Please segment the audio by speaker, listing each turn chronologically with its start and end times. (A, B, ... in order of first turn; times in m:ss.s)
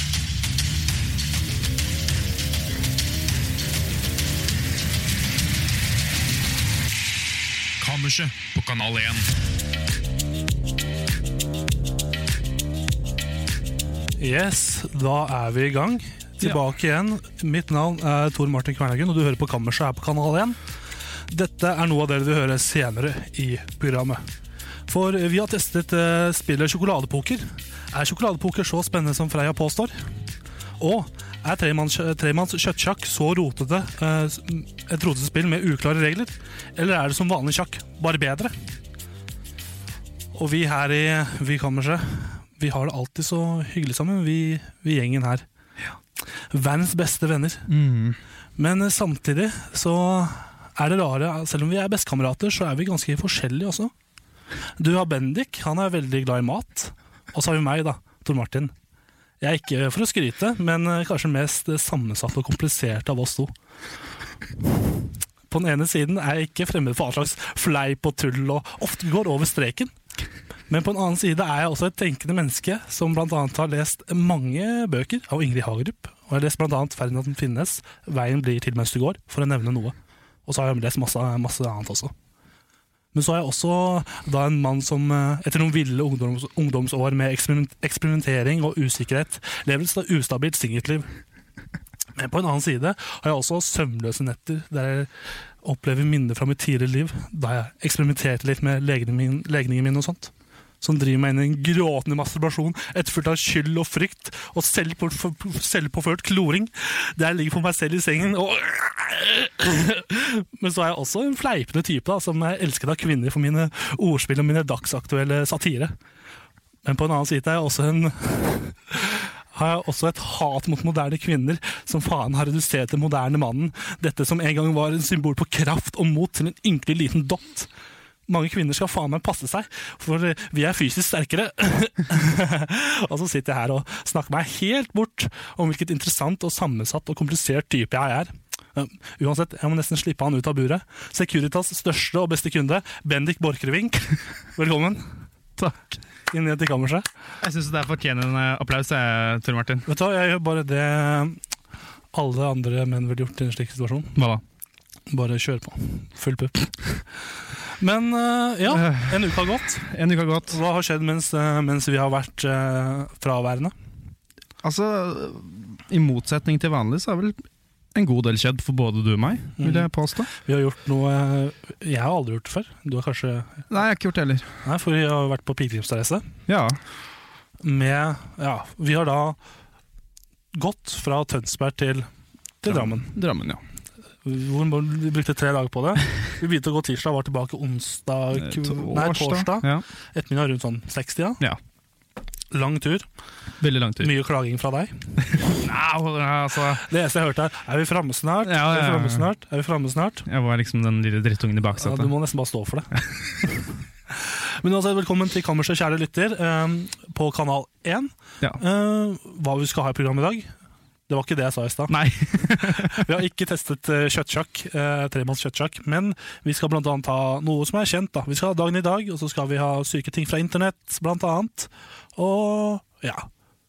0:07.8-0:09.3 A
0:14.2-0:20.6 B
0:21.3-0:24.2 B
0:24.9-0:30.0 B
0:30.8-0:38.6 B
0:40.3-0:45.5 B
0:46.2-0:47.7 B
0:47.7-0:48.2 A
0:48.6-0:53.9 B
0:54.8-0:58.7 B
0:59.4-1:03.5 B
1:05.5-1:09.9 B
1:10.7-1:20.0 B
1:20.5-1:22.1 B
1:23.1-1:31.1 B
1:32.2-1:35.1 B
1:35.6-1:55.9 B
1:56.8-2:07.7 B
2:08.3-2:25.1 B
2:26.3-2:27.1 B
2:27.4-2:29.9 A
2:29.9-2:31.4 B
2:32.1-2:34.2 B
2:34.2-2:34.4 A
2:35.1-2:37.0 B
2:37.7-2:39.9 B
2:38.7-2:40.6 A
2:40.5-2:43.7 B
2:44.6-2:50.3 A
2:49.6-2:53.7 B
2:53.7-2:54.5 A
2:54.6-2:56.3 B
2:56.5-2:56.8 A
2:57.6-2:59.4 B
3:00.5-3:02.1 B
3:02.6-3:03.1 B
3:02.7-3:03.6 A
3:04.2-3:11.4 B
3:08.4-3:09.8 A
3:12.5-3:13.1 B
3:13.6-3:14.1 A
3:14.0-3:15.2 B
3:15.4-3:16.8 A
3:16.8-3:20.2 B
3:18.4-3:19.3 A
3:20.3-3:22.1 A
3:21.8-3:30.5 B
3:31.1-3:32.0 B
3:31.9-3:33.0 A
3:32.6-3:43.3 B